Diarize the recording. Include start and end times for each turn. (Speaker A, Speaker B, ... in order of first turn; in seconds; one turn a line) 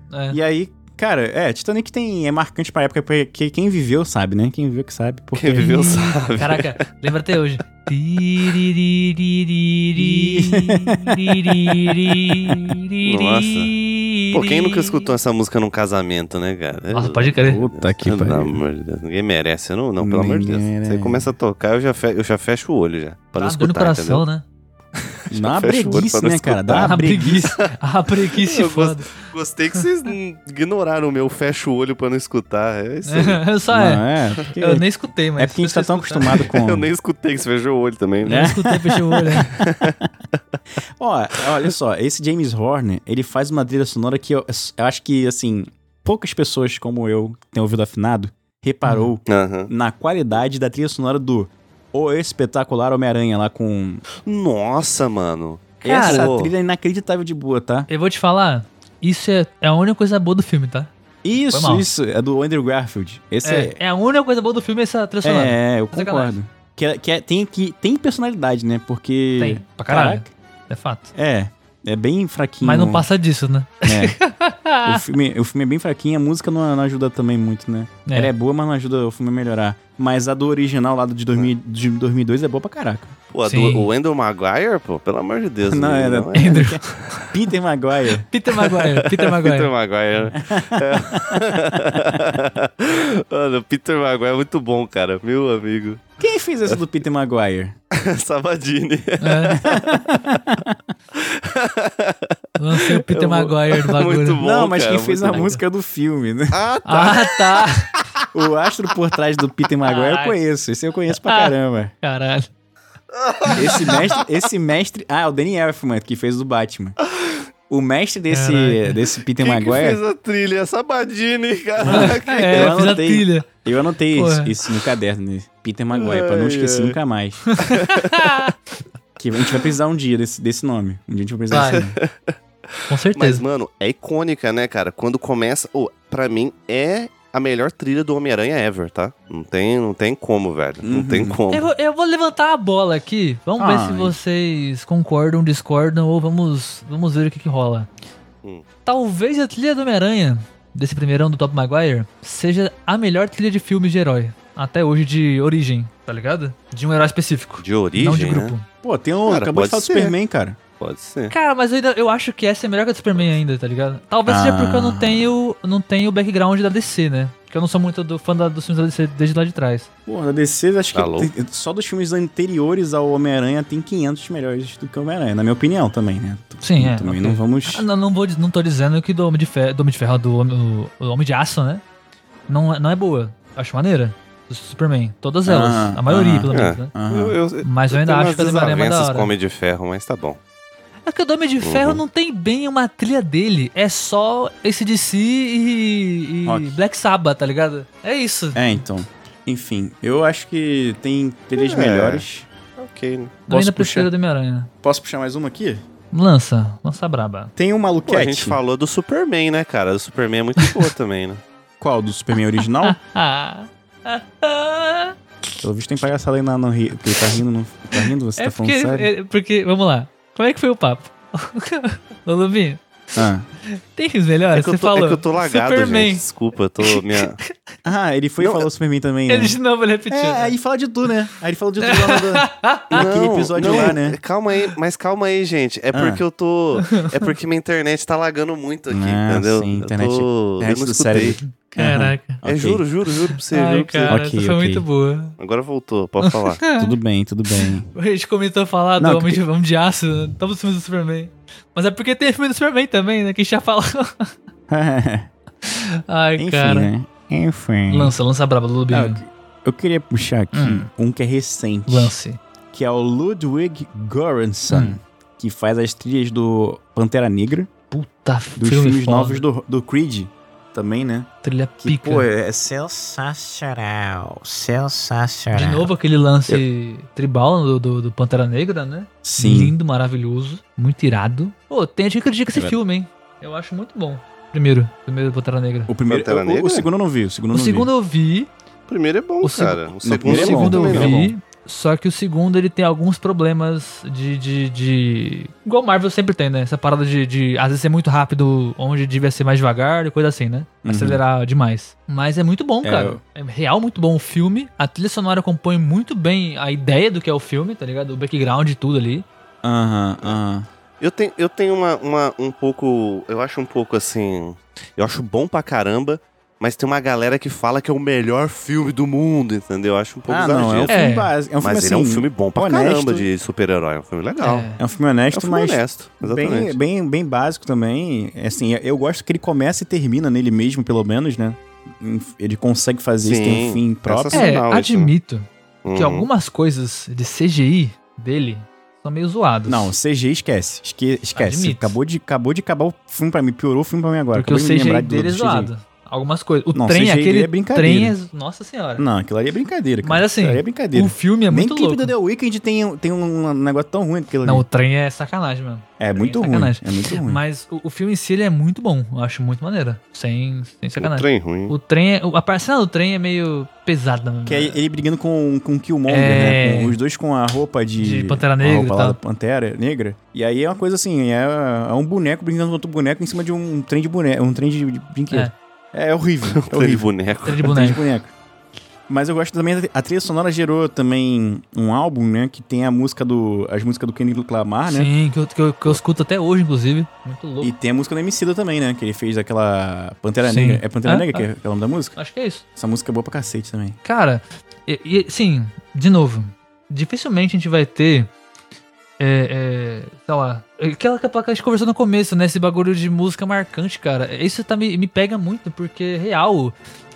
Speaker A: 0.1-0.4
Speaker B: 0.3-6.0
Speaker C: 5.3-6.8
Speaker A: 5.6-15.1
Speaker B: 10.0-11.9
Speaker C: 13.0-13.7
Speaker C: 14.3-24.2
Speaker A: 16.9-17.6
Speaker B: 17.4-18.6
Speaker B: 20.0-21.3
Speaker A: 23.4-24.4
Speaker C: 25.1-26.9
Speaker B: 25.3-27.5
Speaker A: 26.8-29.3
Speaker C: 28.3-33.4
Speaker A: 33.0-36.5
Speaker B: 33.7-34.9
Speaker B: 35.4-36.9
Speaker C: 36.4-38.5
Speaker A: 38.2-39.5
Speaker B: 38.3-40.1
Speaker C: 39.5-40.0
Speaker B: 41.0-54.0
Speaker C: 49.3-49.7
Speaker C: 54.2-56.5
Speaker B: 55.8-57.9
Speaker A: 55.8-56.3
Speaker A: 57.9-60.9
Speaker B: 61.2-63.8
Speaker A: 61.5-61.9
Speaker A: 63.4-66.3
Speaker B: 65.2-70.3
Speaker A: 69.4-71.1
Speaker B: 71.1-73.1
Speaker A: 72.6-75.0
Speaker B: 73.8-74.2
Speaker B: 74.8-83.1
Speaker A: 78.0-78.3
Speaker C: 83.3-87.3
Speaker A: 83.4-83.9
Speaker B: 85.7-88.3
Speaker A: 86.3-86.9
Speaker A: 88.3-90.3
Speaker C: 88.6-96.1
Speaker B: 90.3-92.2
Speaker B: 96.2-97.7
Speaker C: 97.9-100.4
Speaker A: 99.2-99.7
Speaker B: 99.6-100.8
Speaker C: 101.1-105.5
Speaker A: 102.6-104.4
Speaker B: 104.4-106.6
Speaker A: 105.3-105.6
Speaker C: 106.5-108.2
Speaker A: 106.8-107.9
Speaker B: 108.3-111.9
Speaker A: 109.8-110.3
Speaker A: 111.1-112.5
Speaker C: 113.1-114.2
Speaker A: 113.5-113.9
Speaker B: 113.5-117.0
Speaker B: 117.7-120.0
Speaker A: 118.3-119.0
Speaker C: 119.4-122.8
Speaker B: 121.8-127.6
Speaker A: 121.8-123.5
Speaker A: 124.1-124.5
Speaker C: 125.9-127.0
Speaker A: 127.5-128.5
Speaker C: 127.7-128.5
Speaker B: 129.2-132.0
Speaker A: 131.5-131.8
Speaker C: 131.6-132.3
Speaker A: 132.9-133.4
Speaker C: 133.1-141.7
Speaker B: 140.8-141.4
Speaker A: 141.5-147.9
Speaker B: 143.6-144.2
Speaker A: 148.8-158.7
Speaker C: 157.6-158.5
Speaker B: 158.8-160.6
Speaker C: 159.2-160.1
Speaker C: 160.8-161.3
Speaker A: 161.3-169.9
Speaker B: 164.2-165.3
Speaker B: 170.1-177.8
Speaker C: 170.9-171.3
Speaker A: 176.6-181.8
Speaker A: 182.5-186.9
Speaker B: 185.4-187.4
Speaker C: 186.5-190.4
Speaker A: 187.6-189.3
Speaker A: 191.1-198.8
Speaker C: 191.6-192.0
Speaker B: 196.4-196.8
Speaker B: 198.5-202.5
Speaker C: 201.5-202.2
Speaker C: 202.8-203.4
Speaker A: 203.5-204.7
Speaker B: 203.5-204.1
Speaker B: 204.8-205.8
Speaker A: 206.1-207.5
Speaker B: 207.6-208.6
Speaker C: 208.1-211.4
Speaker A: 210.6-210.9
Speaker B: 211.8-213.0
Speaker A: 212.8-215.1
Speaker B: 215.6-219.1
Speaker A: 218.3-222.8
Speaker B: 223.1-223.5
Speaker A: 223.6-226.2
Speaker C: 224.5-227.4
Speaker A: 226.8-227.5
Speaker B: 227.8-234.2
Speaker A: 229.3-230.5
Speaker A: 231.8-233.0
Speaker C: 232.9-241.4
Speaker A: 233.6-234.0
Speaker B: 235.9-236.2
Speaker A: 236.8-237.1
Speaker B: 238.9-242.8
Speaker A: 241.7-242.4
Speaker C: 242.4-244.2
Speaker A: 243.1-245.3
Speaker B: 244.1-244.8
Speaker C: 245.4-246.6
Speaker A: 246.2-246.9
Speaker B: 246.8-247.9
Speaker A: 247.6-254.3
Speaker B: 249.0-249.4
Speaker B: 254.7-255.3
Speaker A: 255.6-256.9
Speaker B: 256.4-258.1
Speaker A: 257.9-259.2
Speaker B: 258.9-262.1
Speaker A: 260.5-260.9
Speaker A: 261.9-262.4
Speaker B: 262.7-267.7
Speaker A: 264.7-265.0
Speaker A: 267.9-269.4
Speaker B: 268.6-271.3
Speaker A: 271.4-272.3
Speaker B: 271.8-275.9
Speaker A: 275.5-285.9
Speaker B: 279.2-279.8
Speaker B: 285.9-287.9
Speaker C: 286.1-286.9
Speaker A: 287.5-288.5
Speaker C: 288.9-291.2
Speaker A: 289.4-309.2
Speaker B: 290.0-291.3
Speaker B: 300.8-301.2
Speaker B: 302.8-303.2
Speaker B: 309.6-310.7
Speaker C: 311.0-321.0
Speaker B: 320.3-323.3
Speaker A: 320.9-321.3
Speaker C: 321.6-324.7
Speaker A: 324.4-324.8
Speaker B: 324.8-334.5
Speaker C: 325.3-326.8
Speaker C: 333.2-335.1
Speaker A: 334.3-339.9
Speaker C: 335.8-336.3
Speaker B: 339.7-345.7
Speaker A: 341.3-342.0
Speaker A: 344.3-349.0
Speaker B: 346.7-348.1
Speaker B: 349.0-354.6
Speaker A: 350.0-352.1
Speaker A: 354.4-364.8
Speaker B: 356.0-357.4
Speaker C: 361.0-361.7
Speaker B: 364.4-378.3
Speaker A: 366.1-367.0
Speaker A: 368.0-369.2
Speaker C: 376.5-377.7
Speaker A: 377.4-378.0
Speaker B: 379.1-385.1
Speaker A: 384.9-387.7
Speaker B: 387.6-392.2
Speaker A: 390.4-391.4
Speaker A: 392.1-392.6
Speaker B: 392.8-394.0
Speaker A: 394.0-398.3
Speaker A: 399.2-406.7